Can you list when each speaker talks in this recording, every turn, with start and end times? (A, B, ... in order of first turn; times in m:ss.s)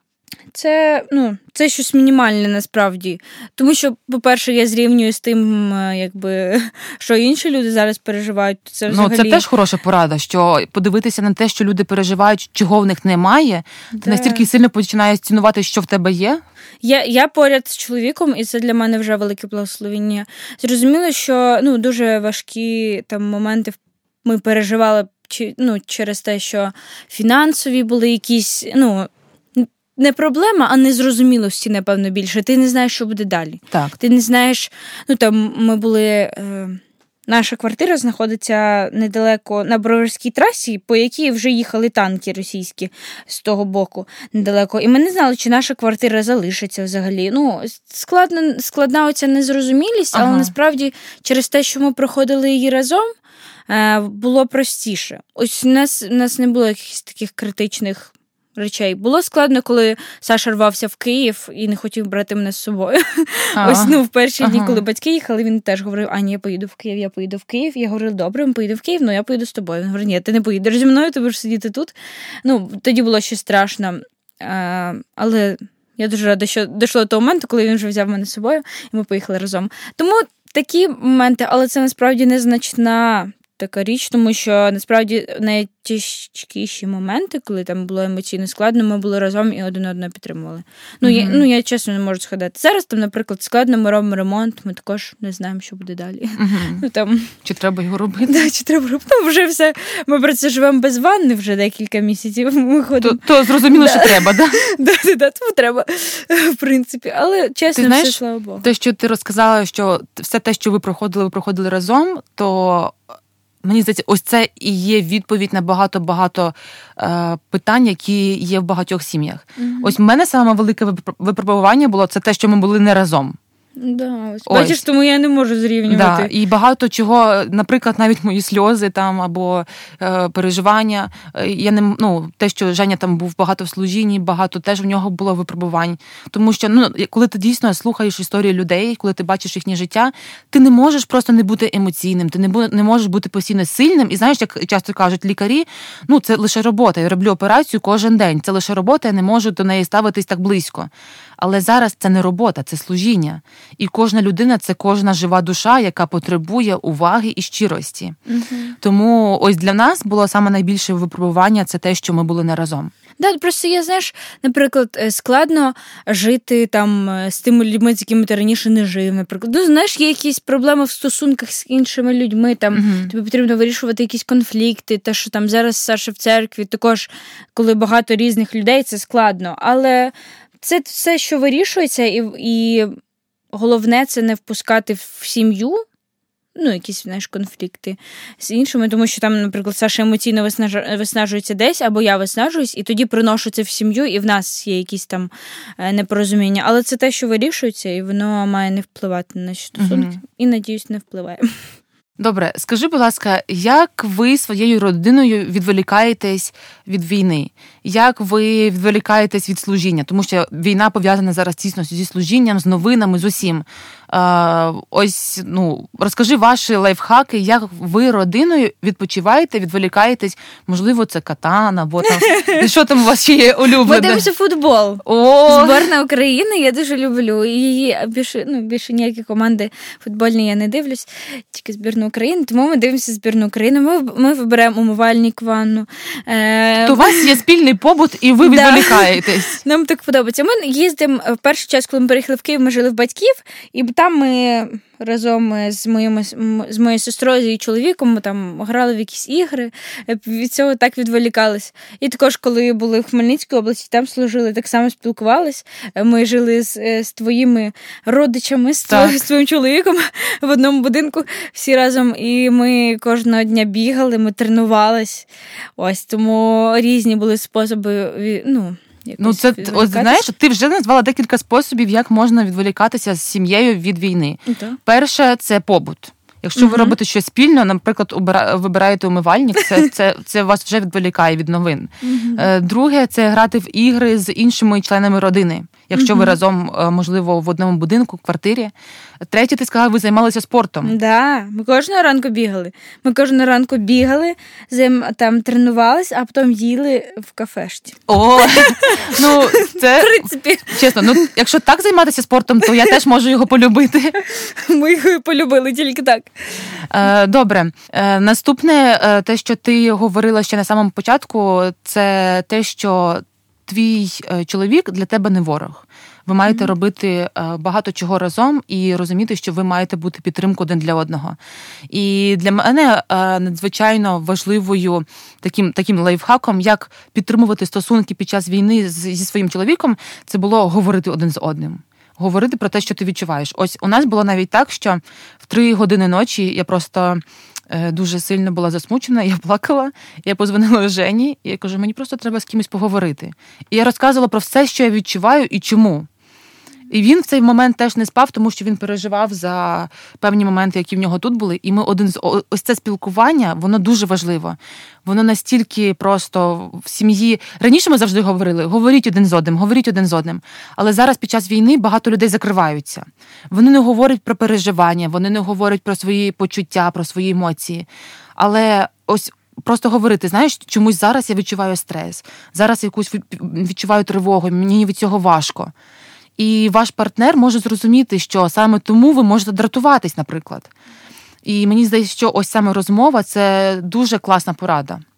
0:00.5-0:09.4 A
0:08.9-0:16.4 B
0:13.9-0:14.5 A
0:16.8-0:53.1 A
0:33.7-0:34.0 B
0:50.1-0:50.5 B
0:53.7-1:37.3 A
1:03.6-1:04.8 B
1:31.0-1:31.4 B
1:36.4-1:36.8 B
1:37.4-1:38.5 B
1:38.2-1:48.7 A
1:43.0-1:44.6 B
1:47.8-1:53.0 B
1:53.6-2:03.4 B
1:59.6-2:00.0 A
2:03.8-2:06.3 A
2:04.5-2:04.8 B
2:05.9-2:38.2 B
2:38.3-2:38.8 A
2:38.8-2:42.9 B
2:43.2-3:02.9 A
2:52.7-2:53.1 B
3:03.5-3:05.8 A
3:06.6-3:21.5 A
3:19.8-3:20.2 B
3:22.2-3:44.2 B
3:42.0-3:42.6 A
3:43.8-3:57.3 A
3:45.0-3:45.9 B
3:56.8-3:59.6 B
3:58.4-4:30.2 A
4:18.9-4:19.2 B
4:29.2-4:50.9 B
4:34.5-4:34.8 A
4:36.6-4:36.9 A
4:42.0-4:42.5 A
4:45.9-4:46.4 A
4:50.8-5:01.3 A
4:58.1-5:04.2 B
5:02.6-5:02.9 A
5:04.2-5:06.7 A
5:06.9-5:21.4 B
5:16.4-5:16.7 A
5:21.9-5:46.1 B
5:46.9-6:15.7 B
6:16.4-6:20.7 B
6:21.4-6:25.0 B